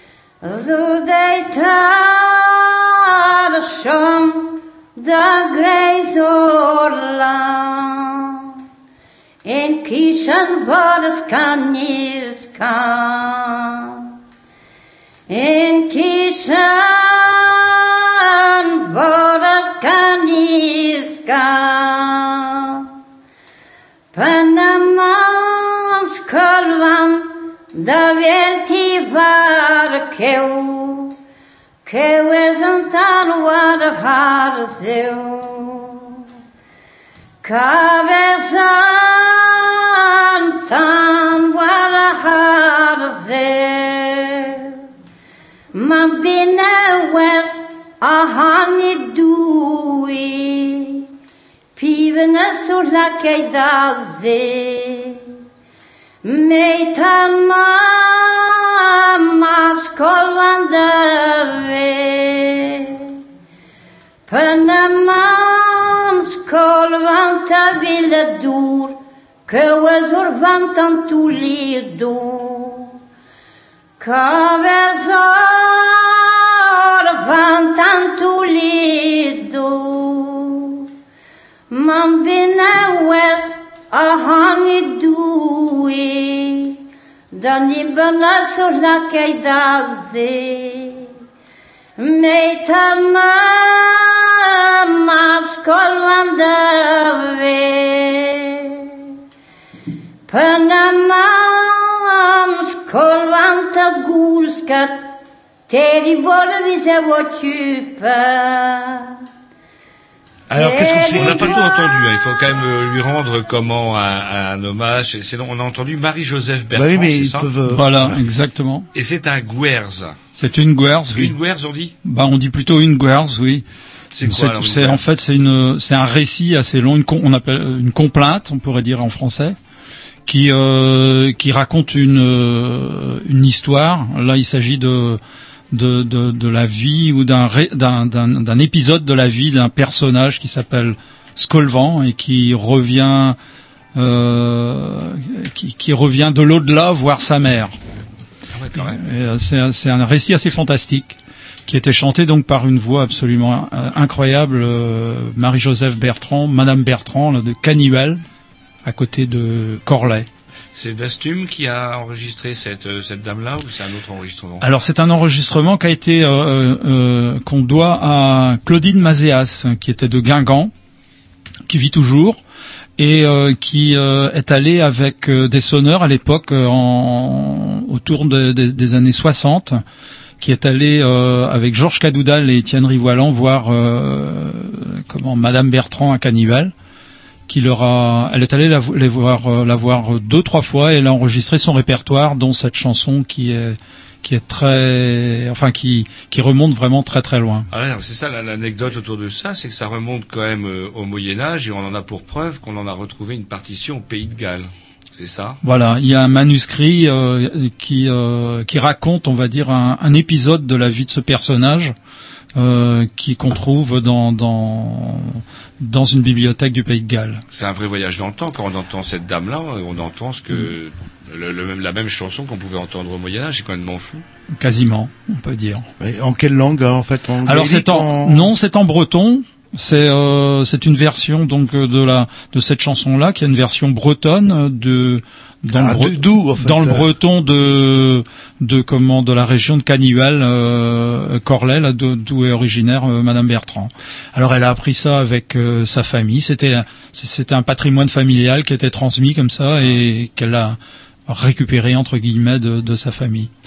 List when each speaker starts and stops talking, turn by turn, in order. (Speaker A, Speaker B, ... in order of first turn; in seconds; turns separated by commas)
Speaker A: 0.4-8.5, Speaker A: 9.4-14.1, Speaker A: 15.3-22.9, Speaker A: 24.1-31.2, Speaker A: 31.9-36.2, Speaker A: 37.4-44.8, Speaker A: 45.7-51.0, Speaker A: 51.8-55.2, Speaker A: 56.2-63.2, Speaker A: 64.3-73.0, Speaker A: 74.0-80.9, Speaker A: 81.7-86.8, Speaker A: 87.3-91.1, Speaker A: 92.0-98.9, Speaker A: 100.3-105.1, Speaker A: 105.7-109.2, Speaker B: 110.5-111.6, Speaker A: 110.5-112.4, Speaker C: 111.1-117.5, Speaker B: 116.7-118.2, Speaker D: 117.7-118.9, Speaker C: 118.9-120.2, Speaker D: 120.3-121.4, Speaker C: 121.1-121.9, Speaker D: 122.0-123.6, Speaker C: 124.1-125.0, Speaker D: 124.2-129.6, Speaker D: 130.3-135.2, Speaker D: 135.7-143.4, Speaker D: 143.9-147.8, Speaker C: 148.5-149.0, Speaker D: 148.8-158.2, Speaker D: 158.8-160.3, Speaker C: 160.8-164.7, Speaker D: 164.6-170.7, Speaker D: 171.7-172.4, Speaker D: 173.0-179.8, Speaker D: 180.4-186.7, Speaker D: 187.5-197.7, Speaker C: 197.7-205.6, Speaker D: 205.6-211.9, Speaker D: 212.6-217.4, Speaker C: 217.5-224.2, Speaker D: 224.6-225.9, Speaker B: 226.0-228.5, Speaker D: 227.4-253.5, Speaker B: 235.7-237.1